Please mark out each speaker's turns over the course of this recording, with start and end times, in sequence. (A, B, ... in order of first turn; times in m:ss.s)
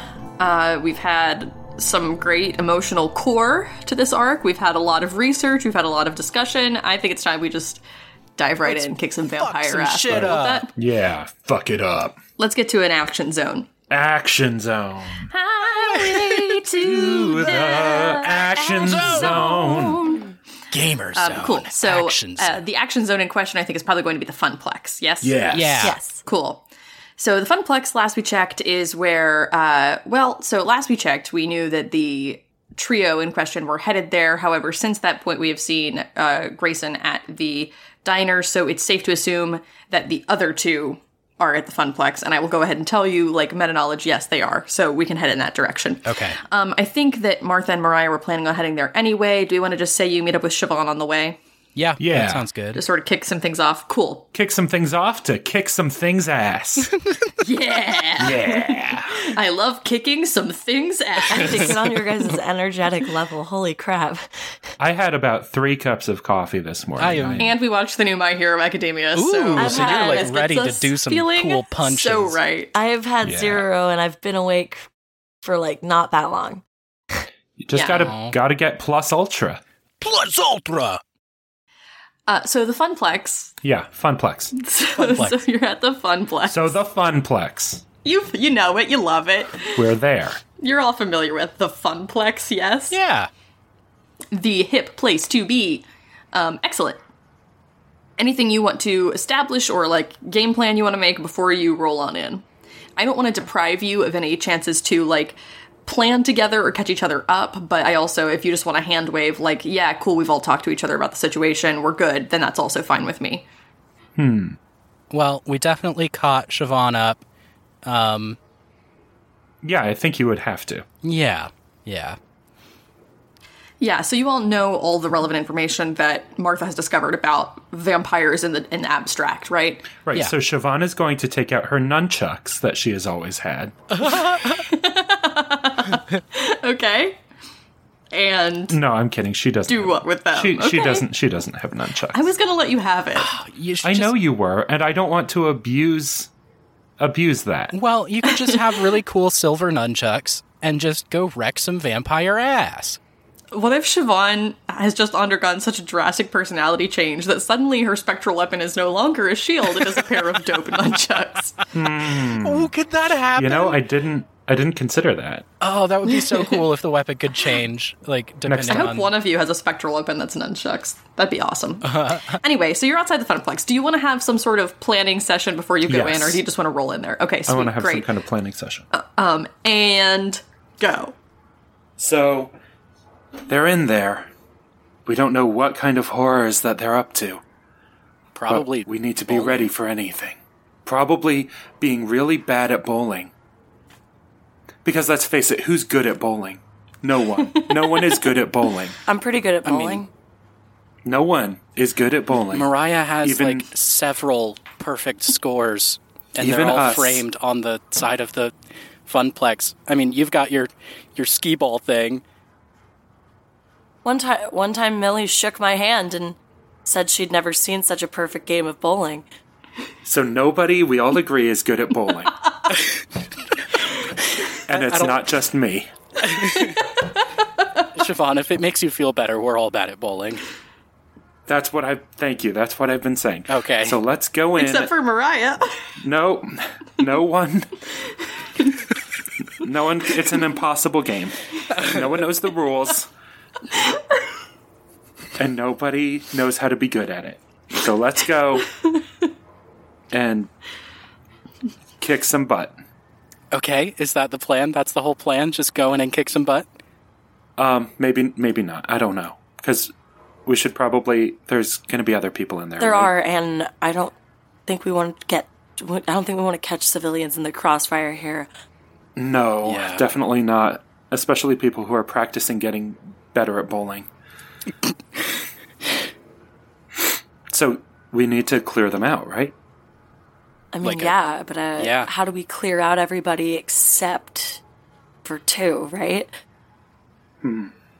0:00.4-0:07.8 A
0:08.4-0:10.7 A
0:08.6-0:10.7 B
0:10.1-0:12.2 C
0:12.4-0:13.7 A
0:13.9-0:15.3 C
0:15.3-0:18.4 A
0:15.7-0:16.6 B
0:16.8-0:20.2 C
0:18.4-0:19.6 B
0:18.9-0:20.2 D
0:19.1-0:19.9 A
0:20.7-0:22.6 B
0:21.1-0:25.5 A
0:25.2-0:25.9 C
0:25.5-0:26.0 B
0:25.8-0:26.2 D
0:26.2-0:26.6 A
0:27.2-0:51.4 A
0:46.1-0:46.4 B
0:51.8-0:52.8 B
0:52.0-0:52.4 C
0:52.7-0:54.3 A
0:54.3-0:56.9 C
0:57.4-1:01.9 A
0:58.2-0:59.3 C
1:01.3-1:04.3 D
1:04.8-1:07.6 C
1:07.0-1:07.5 B
1:07.4-1:12.7 A
1:09.2-1:12.4 B
1:09.6-1:10.4 D
1:12.7-1:14.9 D
1:13.2-1:13.7 C
1:15.4-1:16.6 D
1:17.6-1:19.6 C
1:17.7-1:18.1 A
1:18.0-1:18.4 B
1:20.0-1:21.0 B
1:22.3-1:23.6 A
1:23.6-1:24.5 C
1:24.5-1:26.8 A
1:25.0-1:25.4 B
1:26.5-1:27.8 C
1:28.0-1:29.9 A
1:29.7-1:30.4 C
1:30.6-1:33.0 A
1:32.9-1:33.3 B
1:34.3-1:37.0 A
1:38.2-1:42.4 A
1:43.0-1:53.4 A
1:54.2-1:54.6 C
1:55.1-1:57.2 B
1:57.8-1:58.4 B
1:59.6-2:00.9 C
2:01.0-2:02.2 B
2:03.8-2:09.9 A
2:10.1-2:13.8 C
2:14.0-2:14.6 B
2:14.0-2:17.2 A
2:18.1-2:18.8 A
2:18.7-2:22.3 C
2:19.7-2:21.0 A
2:22.1-2:23.3 A
2:23.2-2:24.1 B
2:23.8-2:26.3 C
2:27.0-2:27.7 C
2:27.7-2:33.0 B
2:28.3-2:28.6 A
2:33.5-2:41.6 A
2:39.8-2:40.4 B
2:41.7-2:42.7 C
2:42.2-2:43.8 B
2:43.4-2:45.5 C
2:45.6-2:49.1 B
2:46.1-2:46.6 A
2:48.4-2:48.9 C
2:48.7-2:58.1 A
2:51.8-2:52.4 B
2:55.8-2:56.4 C
2:57.5-2:58.8 C
2:58.9-3:01.2 A
3:02.0-3:02.5 C
3:03.4-3:04.3 C
3:05.1-3:07.4 C
3:08.4-3:09.7 B
3:08.5-3:13.3 C
3:14.8-3:19.0 C
3:17.5-3:18.1 A
3:19.1-3:20.1 D
3:19.6-3:20.0 B
3:21.0-3:22.7 C
3:22.5-3:28.5 B
3:23.2-3:23.7 C
3:26.4-3:27.2 C
3:29.1-3:32.2 B
3:34.0-3:39.3 D
3:40.0-3:42.4 C
3:44.7-3:45.9 C
3:44.7-3:45.2 B
3:46.2-3:47.0 B
3:47.9-3:50.4 B
3:51.5-3:54.9 C
3:53.5-3:54.0 B
3:54.6-3:55.8 A
3:56.0-3:57.7 C
3:59.6-4:03.1 C
4:05.4-4:08.7 C
4:10.1-4:10.5 C
4:12.0-4:12.8 C
4:13.5-4:16.7 B
4:17.6-4:19.9 C
4:20.5-4:23.1 C
4:22.8-4:24.1 D
4:24.7-4:28.5 D
4:29.2-4:34.1 C
4:29.6-4:30.0 B
4:37.5-4:39.5 C
4:40.7-4:44.6 D
4:40.8-4:41.1 B
4:41.8-4:42.1 B
4:45.2-4:46.3 D
4:47.4-4:47.7 C